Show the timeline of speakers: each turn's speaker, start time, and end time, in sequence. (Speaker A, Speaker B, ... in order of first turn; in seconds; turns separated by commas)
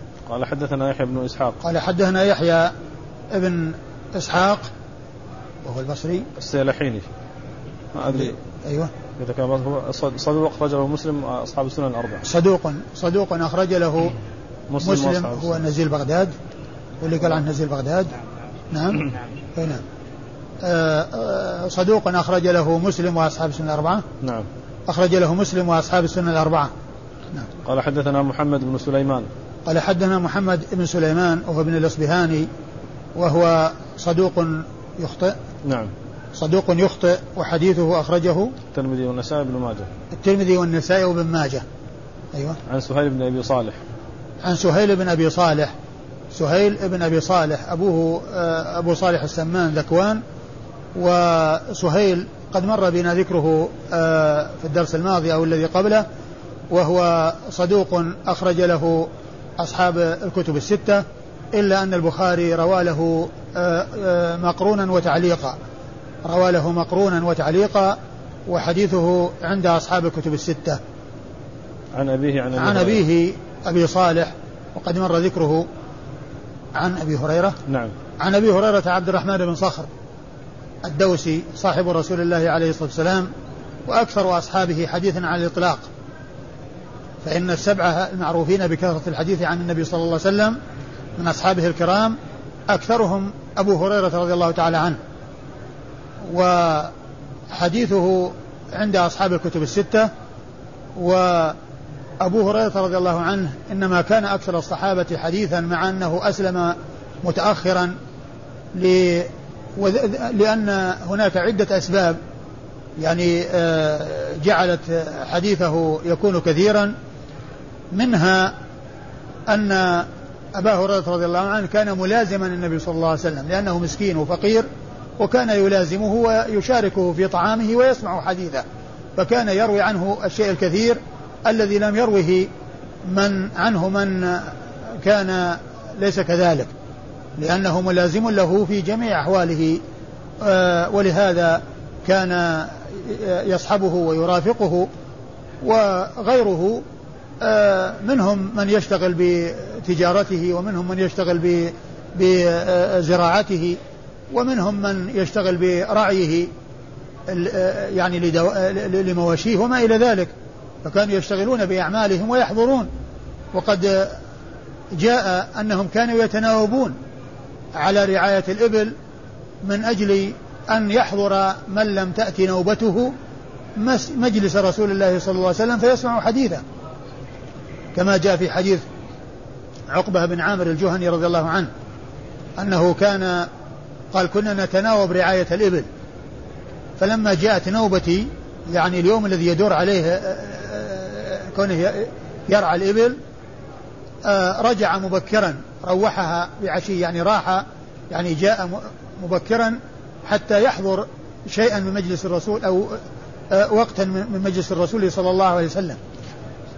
Speaker A: 0.3-1.6, Speaker B: 1.6-2.7, Speaker B: 3.3-4.7, Speaker B: 5.6-6.2, Speaker A: 6.3-7.0, Speaker A: 7.9-8.4, Speaker B: 8.0-8.9, Speaker A: 9.2-12.2, Speaker B: 12.2-14.1, Speaker A: 14.7-15.6, Speaker B: 14.8-16.3, Speaker B: 17.0-18.1, Speaker B: 18.7-19.8, Speaker B: 20.6-24.0, Speaker A: 24.2-24.5, Speaker B: 24.9-26.7, Speaker A: 27.6-29.3, Speaker B: 29.6-32.5, Speaker B: 33.1-35.4, Speaker A: 35.6-35.9, Speaker B: 36.3-38.5, Speaker A: 38.7-39.9, Speaker B: 40.1-41.6, Speaker B: 42.3-42.6, Speaker A: 42.7-43.8, Speaker B: 44.4-45.7, Speaker B: 46.3-50.2, Speaker B: 50.9-56.0, Speaker B: 56.7-65.6, Speaker B: 66.2-70.8, Speaker A: 72.0-73.0, Speaker B: 72.6-75.7, Speaker B: 76.8-77.5, Speaker A: 77.7-77.9, Speaker B: 78.2-79.9, Speaker B: 80.8-83.3, Speaker B: 83.9-85.9, Speaker B: 87.2-90.6, Speaker B: 91.2-92.2, Speaker B: 92.7-95.0, Speaker B: 96.2-96.9, Speaker B: 97.5-100.1, Speaker B: 101.0-101.6, Speaker B: 102.2-107.9, Speaker B: 108.7-112.2, Speaker B: 113.0-116.9, Speaker B: 117.9-118.5, Speaker B: 119.5-124.7, Speaker B: 125.2-128.6, Speaker B: 129.2-132.5, Speaker B: 133.0-136.7, Speaker B: 137.4-139.8, Speaker B: 140.4-144.9, Speaker B: 145.6-146.8, Speaker B: 147.4-153.8, Speaker B: 154.3-156.5, Speaker B: 157.3-160.3, Speaker B: 160.8-162.9, Speaker B: 163.5-164.2, Speaker B: 164.9-166.9, Speaker B: 167.7-168.9, Speaker B: 169.6-173.1, Speaker B: 173.8-176.6, Speaker B: 177.9-178.8, Speaker B: 179.9-181.7, Speaker B: 182.6-183.5, Speaker B: 184.1-185.9, Speaker B: 187.0-193.2, Speaker B: 194.2-206.0